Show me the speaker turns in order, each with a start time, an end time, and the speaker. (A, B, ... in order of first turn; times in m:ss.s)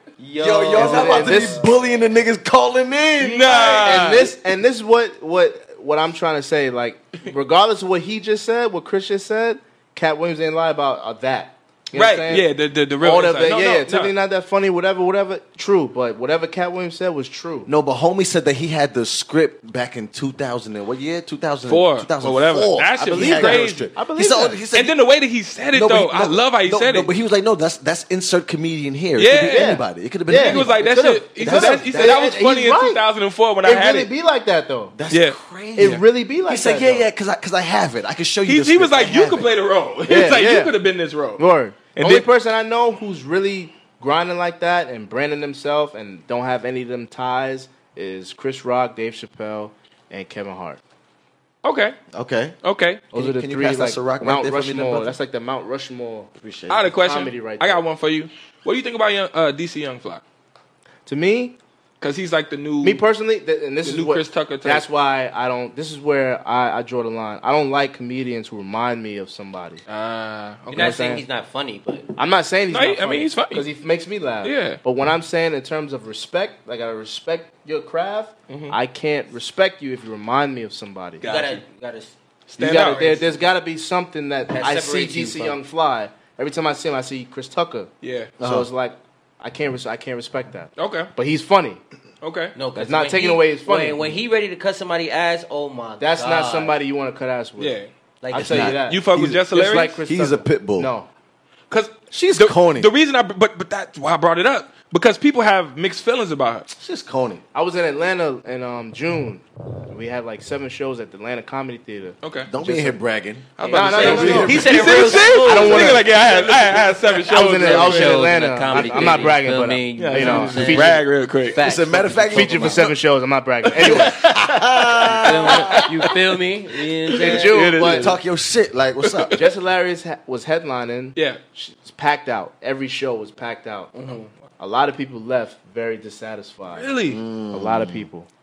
0:00.2-0:02.0 A
0:00.4-0:03.7 B
0:00.7-0:01.6 C
0:03.2-0:04.3 D
0:03.5-0:12.5 C
0:11.9-0:14.1 D
0:13.0-0:17.7 C
0:17.6-0:25.0 B
0:21.7-0:23.8 D
0:23.0-0:24.6 C
0:24.7-0:27.1 D
0:25.7-0:32.2 B
0:29.2-0:29.8 D
0:29.5-0:33.0 C
0:30.3-0:34.1 D
0:33.6-0:34.9 C
0:34.9-0:39.5 B
0:35.1-0:36.0 D
0:35.8-0:37.0 C
0:38.4-0:41.4 D
0:40.1-0:40.7 C
0:41.4-0:50.8 C
0:41.9-0:42.3 D
0:51.6-0:52.0 D
0:52.1-0:52.5 B
0:52.6-0:53.0 D
0:53.1-0:56.3 C
0:53.1-0:55.2 B
0:56.4-0:56.9 B
0:56.7-1:00.2 D
0:57.0-0:57.8 C
1:01.0-1:01.6 C
1:02.0-1:03.0 D
1:02.8-1:09.8 C
1:03.8-1:04.8 D
1:09.9-1:11.0 D
1:10.7-1:12.1 A
1:10.7-1:11.2 C
1:12.2-1:21.2 C
1:12.7-1:13.7 D
1:14.4-1:14.8 D
1:18.5-1:18.8 D
1:21.2-1:21.6 D
1:21.2-1:22.1 A
1:22.5-1:23.2 D
1:22.6-1:31.8 C
1:24.5-1:25.6 A
1:28.0-1:28.3 D
1:28.4-1:28.7 B
1:30.8-1:31.1 D
1:32.2-1:32.5 D
1:32.5-1:36.8 A
1:32.7-1:34.1 C
1:36.0-1:37.8 C
1:37.6-1:37.9 D
1:38.2-1:38.8 A
1:38.3-1:41.1 C
1:38.3-1:39.4 B
1:38.8-1:40.0 D
1:40.0-1:40.9 B
1:41.7-1:46.7 D
1:42.1-1:42.9 B
1:46.7-1:47.4 B
1:47.5-1:53.0 C
1:52.2-1:52.5 D
1:52.5-1:55.1 B
1:53.6-1:59.3 D
1:53.7-2:01.0 C
1:53.7-1:56.1 A
1:57.4-2:02.9 A
2:00.0-2:01.6 D
2:01.6-2:02.9 B
2:02.3-2:04.3 C
2:03.8-2:05.7 B
2:03.8-2:04.3 D
2:05.1-2:07.8 A
2:07.2-2:08.1 C
2:07.3-2:08.1 D
2:07.6-2:09.3 B
2:09.0-2:09.4 D
2:09.3-2:13.9 C
2:11.1-2:11.4 D
2:13.9-2:14.3 A
2:14.6-2:17.0 C
2:16.7-2:17.2 D
2:17.1-2:18.1 B
2:17.5-2:18.3 C